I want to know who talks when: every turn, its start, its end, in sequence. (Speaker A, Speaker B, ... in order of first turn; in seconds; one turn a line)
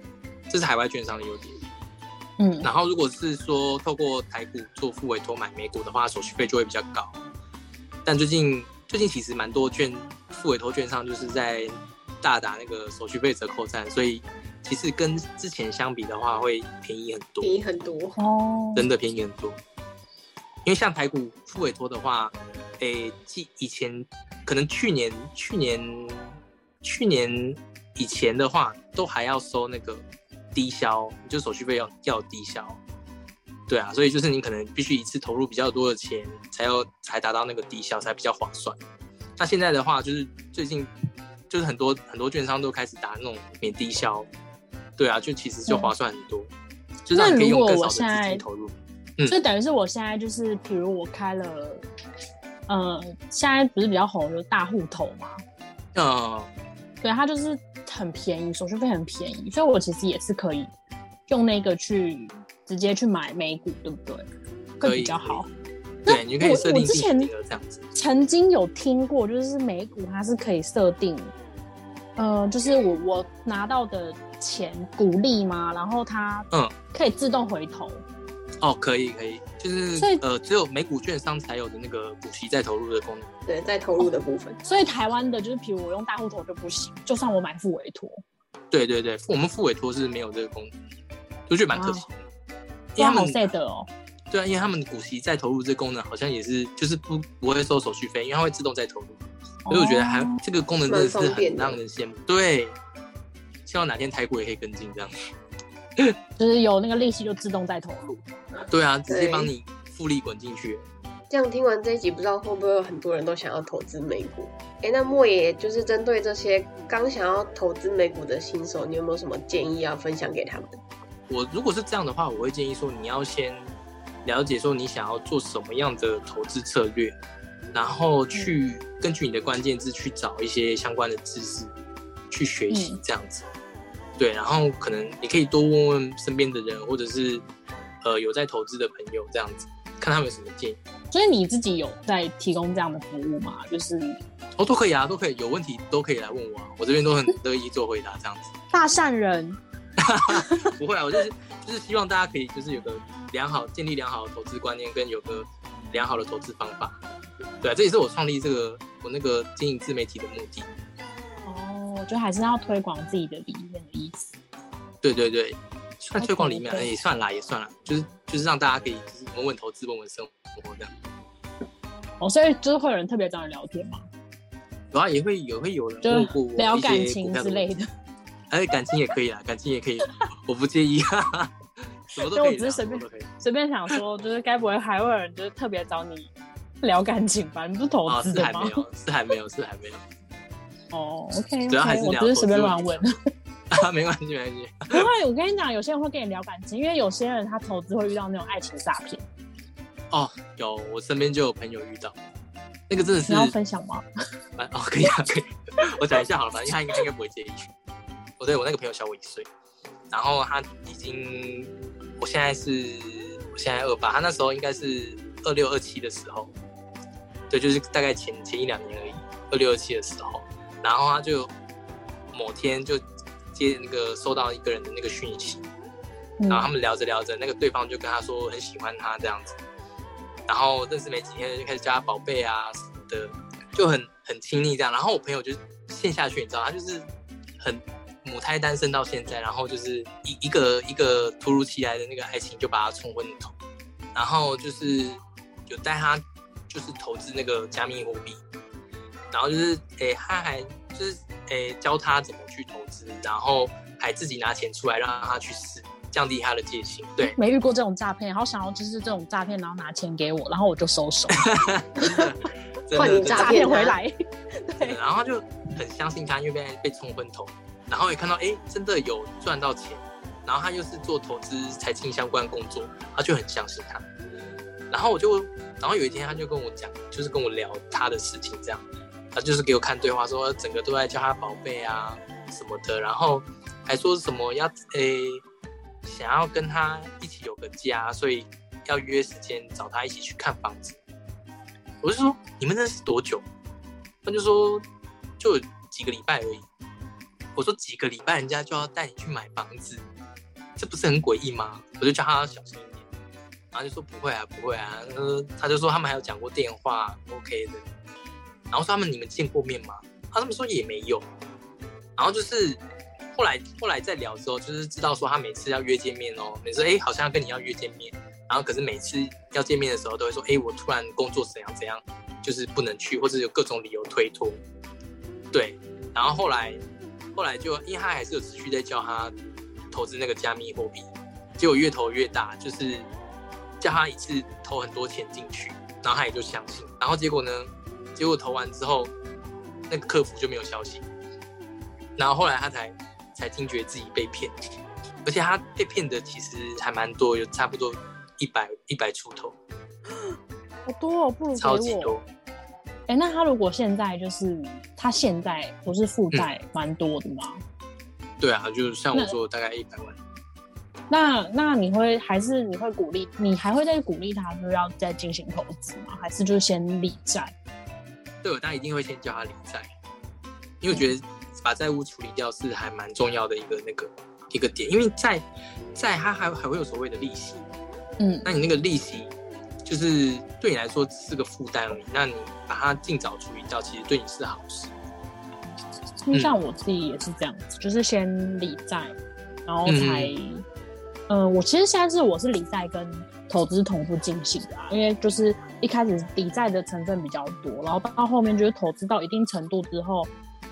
Speaker A: 0.5-1.6
Speaker B: 2.4-2.7
Speaker A: 2.6-7.2
Speaker A: 8.1-17.6
Speaker C: 17.4-18.2
Speaker B: 18.2-18.9
Speaker A: 18.8-19.6
Speaker A: 20.6-32.8
Speaker A: 33.7-38.8
Speaker A: 39.4-40.9
Speaker A: 41.5-44.3
Speaker A: 45.0-46.5
Speaker B: 45.7-45.9
Speaker A: 47.1-49.4
Speaker B: 47.1-48.4
Speaker B: 49.3-51.8
Speaker B: 52.7-55.3
Speaker A: 56.0-56.5
Speaker B: 57.0-60.7
Speaker B: 61.3-64.2
Speaker B: 64.8-65.5
Speaker A: 64.8-65.5
Speaker B: 66.0-67.3
Speaker A: 66.0-67.8
Speaker B: 67.9-71.3
Speaker B: 72.2-78.0
Speaker A: 78.6-83.3
Speaker B: 80.0-80.2
Speaker C: 83.5-84.6
Speaker B: 84.6-88.2
Speaker A: 88.7-90.7
Speaker A: 91.5-92.2
Speaker B: 91.7-92.1
Speaker A: 93.0-93.5
Speaker B: 93.0-93.9
Speaker A: 94.3-102.8
Speaker B: 99.7-100.4
Speaker C: 100.9-101.8
Speaker A: 103.7-105.1
Speaker B: 106.4-108.3
Speaker A: 108.7-110.8
Speaker C: 109.1-109.5
Speaker C: 111.3-120.8
Speaker A: 121.3-123.7
Speaker A: 124.2-127.2
Speaker A: 127.7-131.7
Speaker A: 132.3-133.5
Speaker B: 132.7-133.0
Speaker A: 134.2-137.4
Speaker A: 138.0-140.8
Speaker B: 141.1-144.2
Speaker A: 144.6-148.5
Speaker B: 148.7-149.6
Speaker A: 150.0-157.0
Speaker B: 150.3-150.6
Speaker A: 157.6-160.7
Speaker B: 161.4-164.3
Speaker A: 165.0-170.9
Speaker B: 166.2-166.9
Speaker B: 172.2-174.0
Speaker A: 174.9-177.7
Speaker B: 176.0-177.9
Speaker A: 178.5-181.5
Speaker A: 182.1-183.3
Speaker B: 182.2-186.3
Speaker B: 186.8-188.8
Speaker A: 188.1-190.0
Speaker B: 190.9-193.1
Speaker A: 191.7-193.0
Speaker A: 193.7-195.1
Speaker B: 194.9-199.2
Speaker A: 200.1-202.2
Speaker A: 202.9-203.5
Speaker B: 203.3-204.1
Speaker A: 204.6-207.7
Speaker A: 208.4-209.5
Speaker A: 210.1-216.5
Speaker A: 217.5-221.5
Speaker A: 222.3-223.0
Speaker A: 223.5-225.7
Speaker B: 226.4-226.7
Speaker A: 226.5-229.6
Speaker A: 230.5-237.1
Speaker A: 237.6-243.6
Speaker A: 244.2-248.4
Speaker A: 249.3-257.4
Speaker B: 257.2-262.3
Speaker A: 261.3-263.6
Speaker C: 262.9-264.0
Speaker B: 262.9-264.1
Speaker B: 264.6-265.0
Speaker A: 264.8-274.1
Speaker A: 274.9-285.4
Speaker A: 286.0-291.0
Speaker A: 292.0-293.4
Speaker A: 294.2-294.9
Speaker A: 295.4-296.7
Speaker A: 297.6-300.0
Speaker A: 300.8-303.1
Speaker A: 303.7-307.8
Speaker A: 308.7-311.3
Speaker A: 312.2-312.8
Speaker A: 313.4-324.6
Speaker A: 325.5-326.8
Speaker A: 327.4-329.3
Speaker A: 329.9-333.1
Speaker A: 333.8-339.1
Speaker A: 339.9-341.1
Speaker A: 342.2-344.6
Speaker A: 345.2-349.6
Speaker B: 350.9-352.2
Speaker A: 351.6-352.2
Speaker B: 353.1-357.6
Speaker A: 358.4-360.2
Speaker B: 361.1-367.5
Speaker A: 368.4-369.9
Speaker A: 370.8-377.6
Speaker B: 378.2-378.5
Speaker A: 378.4-379.3
Speaker A: 379.9-384.9
Speaker B: 386.2-389.1
Speaker B: 389.7-390.6
Speaker A: 389.9-390.4
Speaker B: 391.3-400.3